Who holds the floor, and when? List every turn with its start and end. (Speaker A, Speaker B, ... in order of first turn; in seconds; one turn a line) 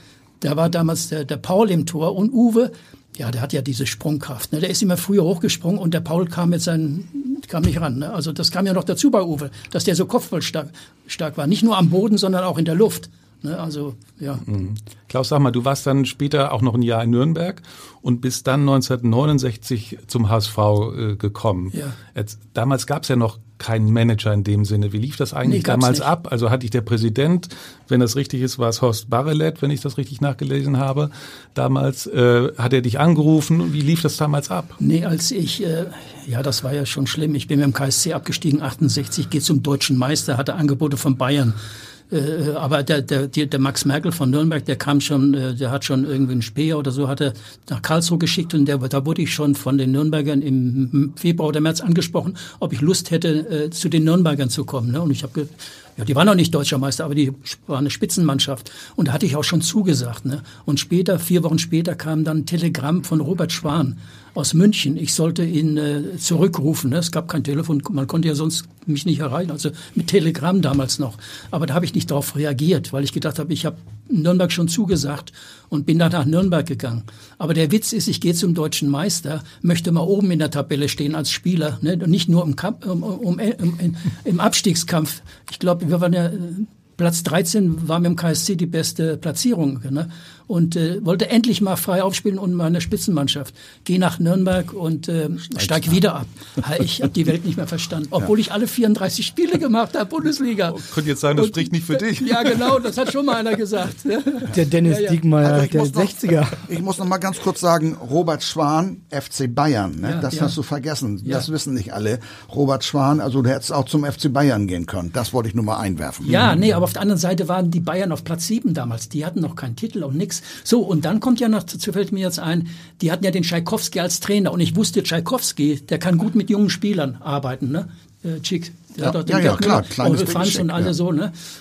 Speaker A: 0.4-14.4
Speaker B: 14.4-34.8
Speaker A: 25.4-26.1
Speaker A: 34.8-41.6
Speaker A: 42.1-100.8
Speaker B: 100.7-102.9
Speaker A: 101.3-105.2
Speaker C: 104.5-106.6
Speaker D: 105.4-116.5
Speaker A: 110.0-110.5
Speaker A: 116.2-131.3
Speaker D: 129.0-130.9